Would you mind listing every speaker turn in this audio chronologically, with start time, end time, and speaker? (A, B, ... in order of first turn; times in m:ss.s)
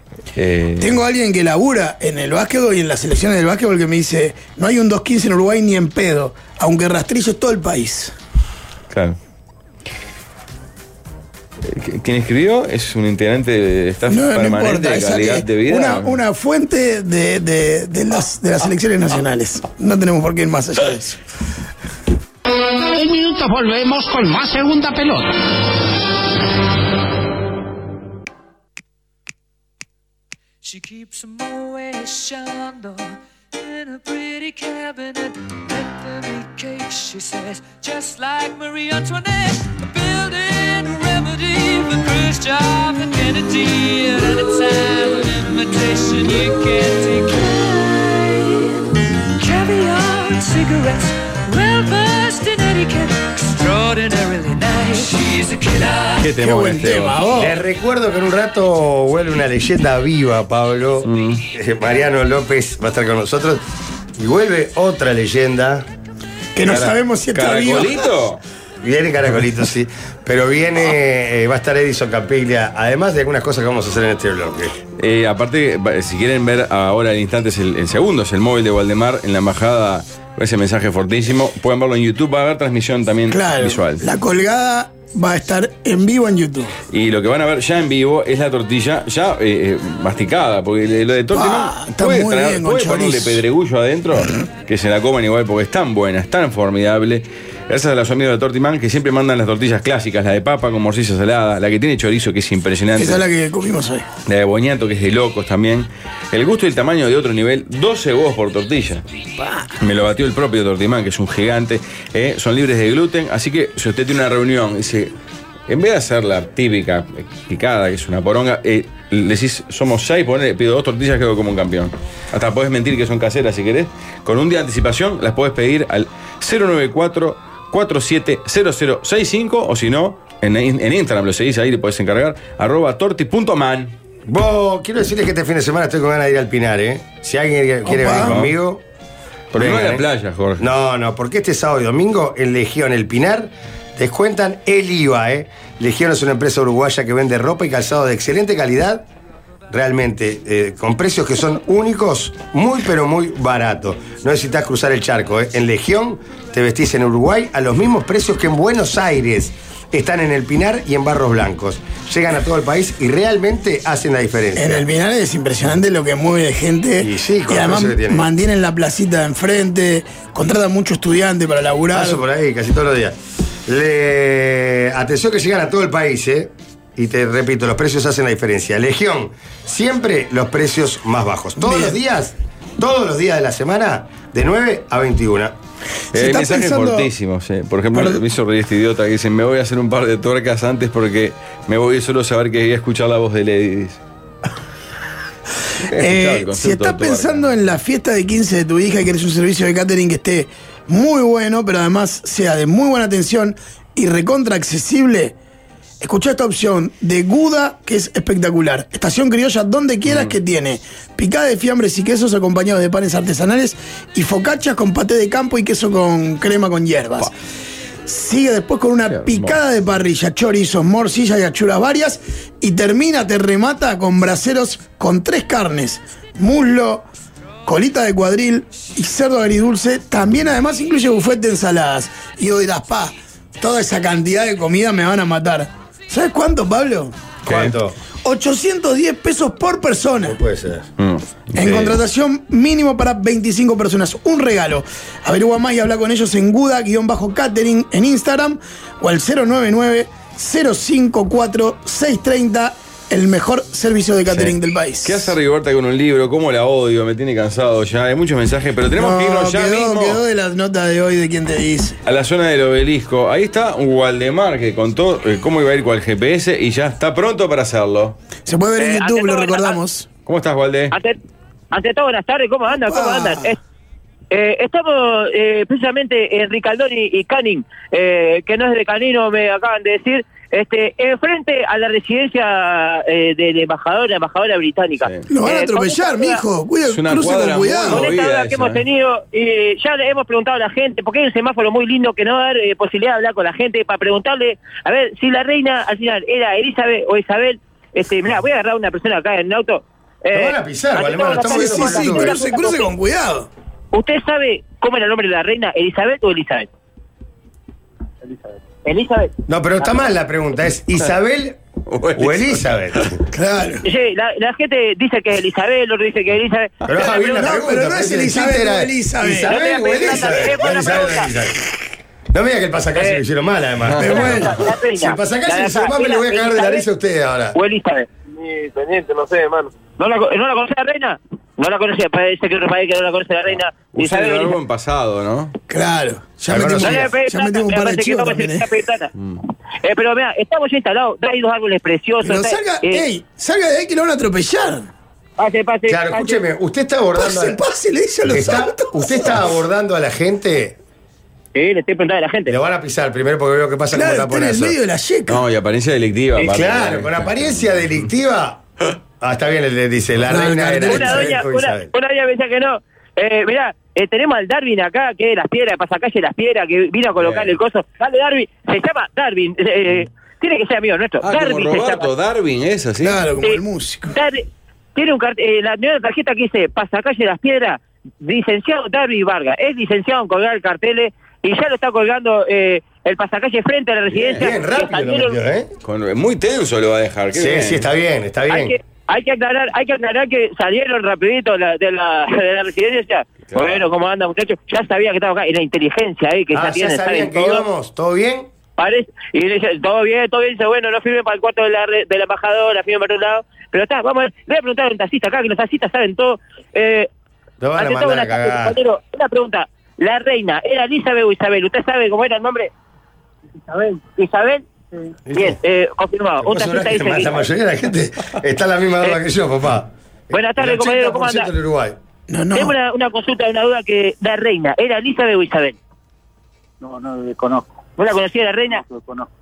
0:00.3-0:01.0 A
0:00.8-0:08.1 B
0:08.9-0:09.2 A
0:11.6-0:16.2 A
0:14.1-0:21.2 B
0:22.8-0:25.4 C
0:30.6-0:48.8 D
0:49.4-0:56.2 D
0:56.2-0:57.2 A
0:56.4-0:57.6 B
0:57.4-1:03.6 E
1:01.0-1:01.4 A
1:04.2-1:05.9 E
1:06.5-1:08.0 B
1:06.7-1:08.4 A
1:08.8-1:14.7 E
1:15.0-1:24.0 A
1:23.3-1:26.8 B
1:26.9-1:43.2 A
1:31.3-1:33.4 B
1:43.0-1:44.0 B
1:44.2-1:49.0 A
1:49.8-1:55.1 A
1:55.7-2:13.9 A
2:14.2-2:18.8 E
2:17.8-2:18.3 B
2:18.2-2:18.5 A
2:19.5-2:20.6 A
2:19.5-2:20.0 E
2:20.6-2:29.0 E
2:29.7-2:44.8 E
2:44.6-2:52.2 B
2:47.0-2:48.2 E
2:51.9-2:53.2 E
2:53.7-3:05.5 E
3:01.6-3:02.0 B
3:06.1-3:07.1 B
3:06.1-3:14.0 A
3:15.9-3:17.5 A
3:15.9-3:25.3 B
3:26.0-3:37.3 B
3:30.0-3:30.3 A
3:38.0-3:47.0 B
3:39.1-3:39.6 A
3:47.6-3:57.1 B
3:57.4-3:57.9 E
3:57.5-3:57.7 A
3:58.2-4:00.4 B
4:00.2-4:00.9 E
4:01.0-4:02.0 A
4:01.6-4:15.3 B
4:14.3-4:20.2 A
4:19.0-4:22.0 B
4:22.0-4:28.2 A
4:28.4-4:30.1 B
4:28.8-4:29.8 F
4:30.2-4:30.9 A
4:30.9-4:31.2 F
4:31.7-4:33.6 F
4:32.7-4:33.6 B
4:34.3-4:46.4 F
4:45.3-4:48.1 B
4:46.9-4:48.8 A
4:47.9-5:02.9 F
5:00.3-5:02.4 E
5:01.4-5:03.5 B
5:03.9-5:06.7 F
5:08.8-5:09.3 F
5:09.5-5:11.6 E
5:11.9-5:13.0 A
5:12.2-5:13.2 E
5:13.3-5:13.8 B
5:13.8-5:17.4 F
5:16.8-5:21.6 E
5:17.3-5:19.5 B
5:19.5-5:21.3 F
5:22.3-5:27.6 E
5:23.0-5:23.2 F
5:23.8-5:24.3 A
5:24.0-5:24.5 B
5:24.1-5:26.8 F
5:27.5-5:28.1 F
5:28.3-5:29.7 G
5:30.0-5:34.6 F
5:33.9-5:35.5 A
5:35.7-5:38.7 B
5:36.5-5:37.1 E
5:36.8-5:39.1 F
5:39.8-5:43.0 F
5:42.2-5:44.9 B
5:45.4-5:46.4 F
5:45.9-5:47.6 E
5:47.2-5:49.3 B
5:48.2-5:50.8 E
5:51.5-5:52.5 F
5:52.5-5:54.8 E
5:53.9-5:55.4 B
5:55.3-5:57.6 A
5:56.4-5:58.6 E
5:59.2-6:01.9 E
6:00.3-6:01.4 B
6:00.9-6:12.1 F
6:07.2-6:07.5 A
6:11.2-6:13.2 A
6:13.0-6:14.2 B
6:14.1-6:25.4 F
6:24.1-6:24.5 A
6:24.3-6:25.7 E
6:25.8-6:27.9 A
6:27.3-6:28.7 E
6:28.5-6:37.6 F
6:33.5-6:33.8 A
6:36.5-6:38.5 E
6:38.8-6:47.1 F
6:47.6-6:48.8 E
6:47.8-6:52.7 F
6:53.7-6:54.6 F
6:55.3-6:55.6 E
6:55.3-6:57.4 F
6:56.4-7:02.0 E
7:00.3-7:01.5 F
7:02.3-7:02.7 B
7:02.5-7:05.8 F
7:06.8-7:07.6 G
7:08.0-7:08.8 F
7:08.9-7:09.2 G